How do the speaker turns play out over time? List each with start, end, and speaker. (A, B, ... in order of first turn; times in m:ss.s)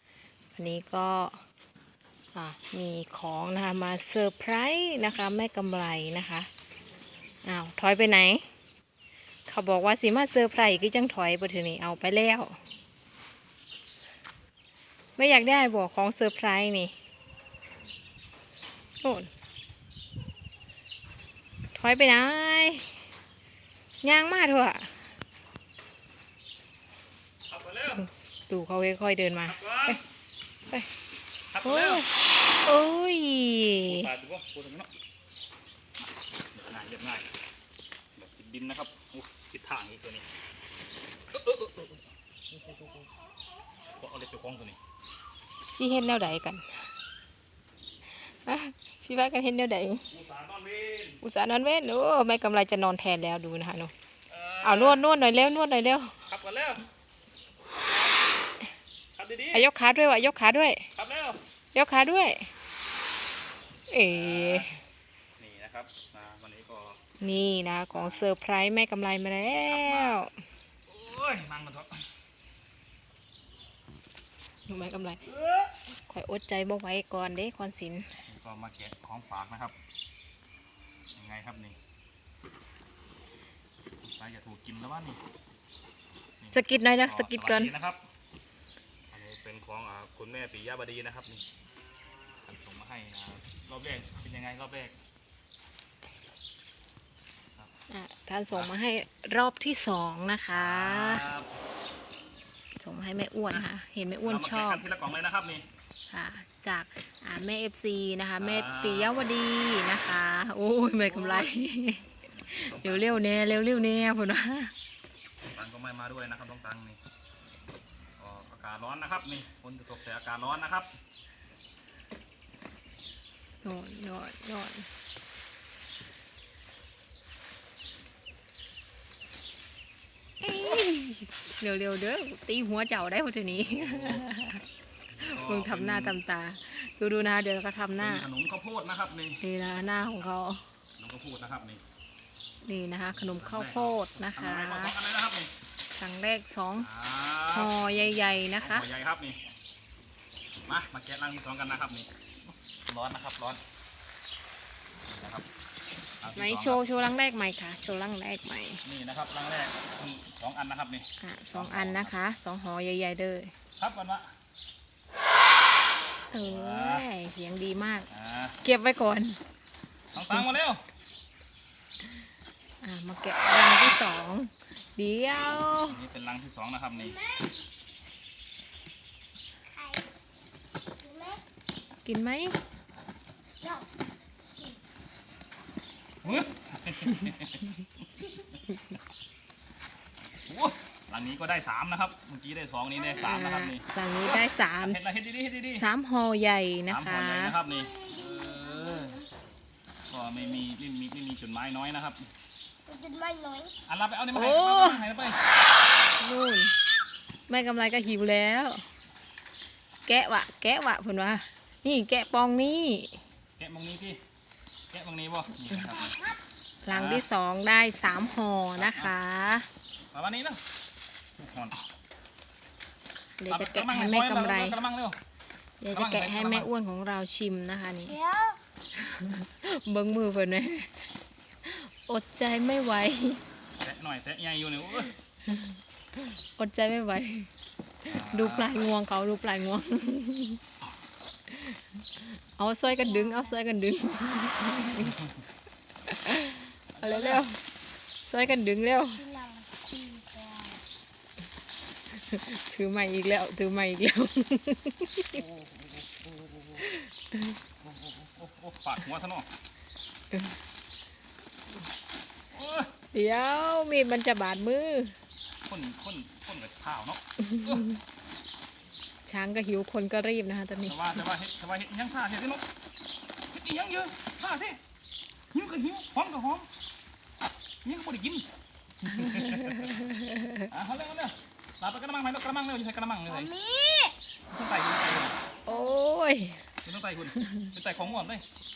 0:00.6-0:01.4 A
0:02.3-0:06.5 A
0:07.4-0:08.5 A
0:09.5-0:12.6 A
0:15.2-0:16.9 A
0:19.0-0:19.3 A
0:21.7-0:23.0 A
0:24.0-0:25.1 A
0:27.5-0:28.1 B
0:28.5-0:30.0 A
0:29.5-0:30.0 B
0:31.5-0:32.1 B
0:31.6-0:32.1 A
0:32.6-0:34.1 A
0:33.8-0:34.9 B
0:36.0-0:37.3 B
0:38.2-0:40.3 B
0:41.3-0:43.1 B
0:44.0-0:44.8 B
0:45.7-0:46.7 A
0:48.3-0:50.1 A
0:50.1-0:51.2 B
0:51.2-0:53.9 A
0:54.3-0:55.0 B
0:54.6-0:56.2 A
0:56.3-0:56.9 B
0:59.2-0:59.7 B
0:59.5-1:00.9 A
1:01.0-1:01.4 B
1:01.7-1:02.5 A
1:03.9-1:04.7 A
1:04.1-1:04.7 B
1:05.4-1:07.0 B
1:07.2-1:10.3 A
1:07.9-1:08.3 B
1:09.6-1:10.3 B
1:10.9-1:12.0 B
1:14.7-1:15.2 A
1:15.3-1:15.7 B
1:16.1-1:18.1 A
1:18.3-1:19.8 B
1:21.2-1:21.8 B
1:24.0-1:25.2 B
1:26.4-1:28.0 B
1:26.5-1:27.7 A
1:29.1-1:31.4 B
1:32.5-1:35.0 B
1:37.9-1:41.3 A
1:40.5-1:41.5 B
1:42.8-1:44.8 A
1:44.2-1:45.6 B
1:46.1-1:54.7 A
1:48.4-1:49.3 B
1:51.0-1:51.6 B
1:52.5-1:54.1 B
1:55.5-1:57.0 B
1:58.2-2:00.9 B
2:03.6-2:04.9 A
2:10.4-2:14.6 A
2:10.5-2:10.8 B
2:13.5-2:14.3 B
2:15.2-2:16.2 B
2:15.2-2:18.3 A
2:18.0-2:19.4 B
2:19.4-2:20.6 A
2:21.0-2:21.8 B
2:22.6-2:25.0 A
2:23.2-2:25.5 B
2:26.0-2:26.9 A
2:26.8-2:29.4 B
2:27.5-2:28.9 A
2:30.6-2:33.6 B
2:35.1-2:35.5 B
2:36.2-2:36.8 B
2:36.4-2:38.8 A
2:38.8-2:42.2 B
2:41.2-2:43.5 A
2:43.8-2:44.3 B
2:46.3-2:48.1 A
2:46.3-2:47.1 B
2:48.1-2:48.6 B
2:48.6-2:49.4 A
2:50.1-2:50.8 B
2:52.8-2:56.0 A
2:55.7-2:57.2 B
2:57.0-2:57.5 C
2:59.7-3:00.1 C
3:01.0-3:01.4 C
3:02.0-3:02.6 A
3:03.6-3:03.9 C
3:06.2-3:07.7 B
3:10.4-3:15.9 B
3:13.1-3:15.1 A
3:15.7-3:17.6 A
3:16.9-3:19.2 B
3:17.6-3:19.3 C
3:20.1-3:22.3 B
3:22.9-3:23.7 C
3:23.9-3:25.4 B
3:24.3-3:25.1 A
3:26.2-3:26.8 A
3:27.5-3:28.8 A
3:30.1-3:33.2 A
3:33.6-3:34.2 B
3:34.9-3:36.2 B
3:36.8-3:39.7 A
3:36.9-3:37.3 B
3:38.8-3:39.2 B
3:40.1-3:40.6 B
3:41.4-3:41.9 B
3:43.4-3:44.8 A
3:43.5-3:45.2 B
3:45.8-3:48.2 A
3:45.9-3:46.7 B
3:48.1-3:48.6 C
3:49.0-3:51.0 A
3:51.6-3:53.4 A
3:53.8-3:55.1 B
3:55.5-3:57.5 A
3:58.0-4:00.6 A
3:58.1-3:58.9 B
4:01.5-4:05.2 A
4:02.9-4:03.6 C
4:06.1-4:07.6 A
4:06.9-4:07.4 B
4:08.2-4:09.2 A
4:09.2-4:10.8 C
4:12.1-4:15.4 A
4:15.4-4:16.9 B
4:16.8-4:17.6 A
4:17.8-4:19.5 B
4:20.3-4:20.6 A
4:22.5-4:22.9 B
4:23.1-4:25.2 A
4:25.7-4:27.9 B
4:27.4-4:28.0 A
4:29.3-4:31.2 A
4:30.9-4:32.6 B
4:33.5-4:34.8 B
4:35.5-4:36.7 B
4:37.8-4:38.5 B
4:39.0-4:40.0 B
4:39.5-4:40.7 A
4:40.7-4:43.5 B
4:43.3-4:44.2 C
4:44.5-4:45.4 B
4:45.7-4:46.6 A
4:45.7-4:46.0 C
4:46.8-4:48.4 B
4:47.4-4:47.7 A